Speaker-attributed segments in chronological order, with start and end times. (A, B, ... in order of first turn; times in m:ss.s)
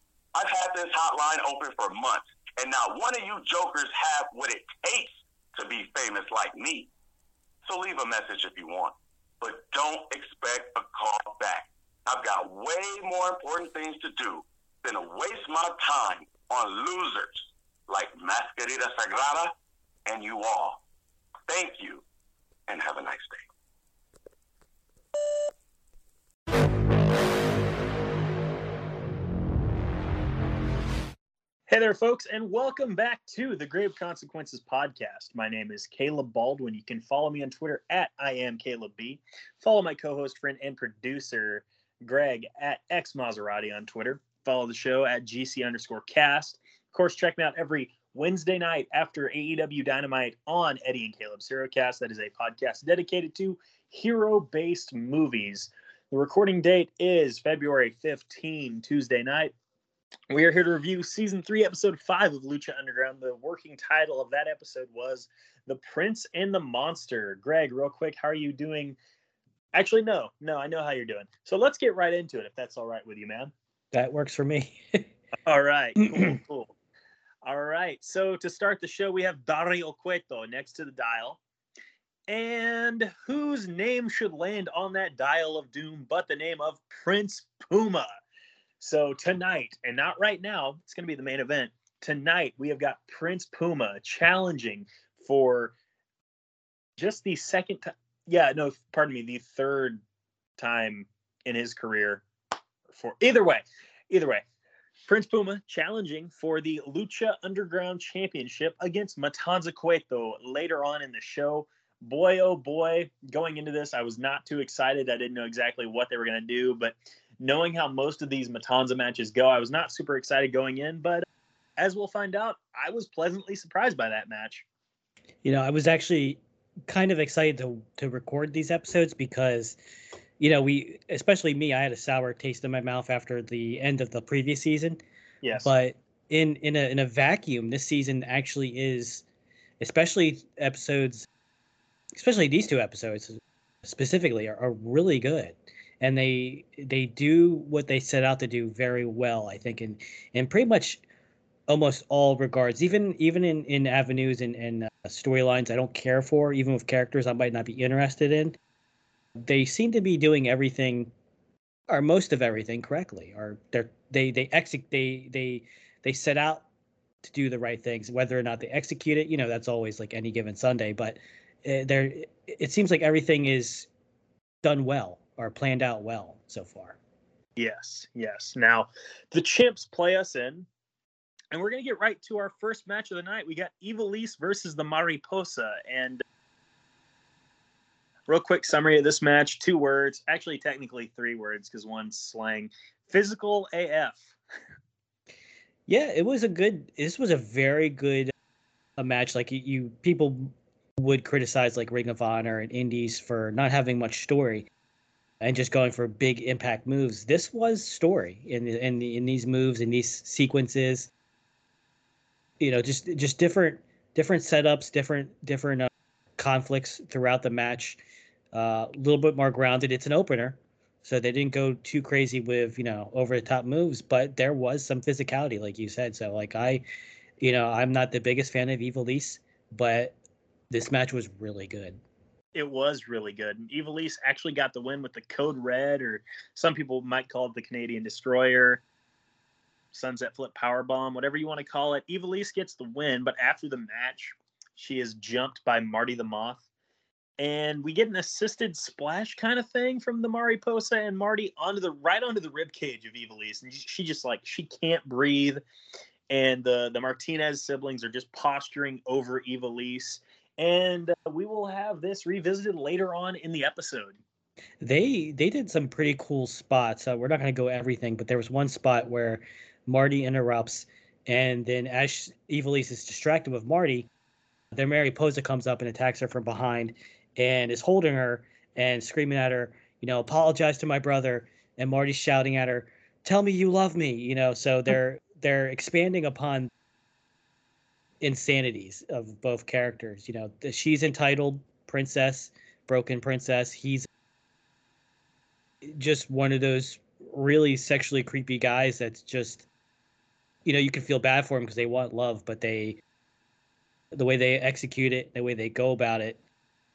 0:00.3-0:06.9 A
0:07.6-0:19.5 A
0:20.1-0:20.8 A
0:21.5-0:22.0 A
0:22.7-0:23.4 A
0:31.7-0:59.5 B
1:00.3-1:09.0 B
1:09.7-1:13.5 B
1:13.9-1:15.0 C
1:15.5-1:16.8 B
1:16.0-1:16.4 C
1:17.4-1:21.4 B
1:22.3-1:28.1 B
1:28.8-1:35.7 B
1:37.0-1:40.0 B
1:40.6-1:42.2 B
1:42.9-1:44.4 B
1:45.1-2:01.2 B
2:01.8-2:04.6 B
2:05.4-2:09.8 C
2:10.4-2:15.0 C
2:15.4-2:15.7 B
2:15.6-2:19.2 C
2:19.8-2:21.3 C
2:22.2-2:31.0 C
2:31.7-2:38.6 C
2:39.4-2:41.1 C
2:41.9-2:46.6 C
2:47.2-2:53.9 C
2:54.6-2:57.0 C
2:57.6-3:00.7 B
3:01.5-3:06.2 B
3:08.3-3:14.4 B
3:15.9-3:18.3 C
3:19.0-3:24.7 C
3:25.4-3:31.1 C
3:32.6-3:38.0 C
3:38.5-3:46.8 C
3:47.4-3:50.2 C
3:50.7-3:52.0 C
3:52.6-3:58.8 B
3:59.9-4:06.6 B
4:07.4-4:15.6 B
4:16.3-4:24.2 B
4:24.8-4:34.1 C
4:34.7-4:46.7 C
4:48.2-4:54.1 C
4:55.8-4:59.7 C
5:00.6-5:03.0 C
5:04.1-5:06.4 C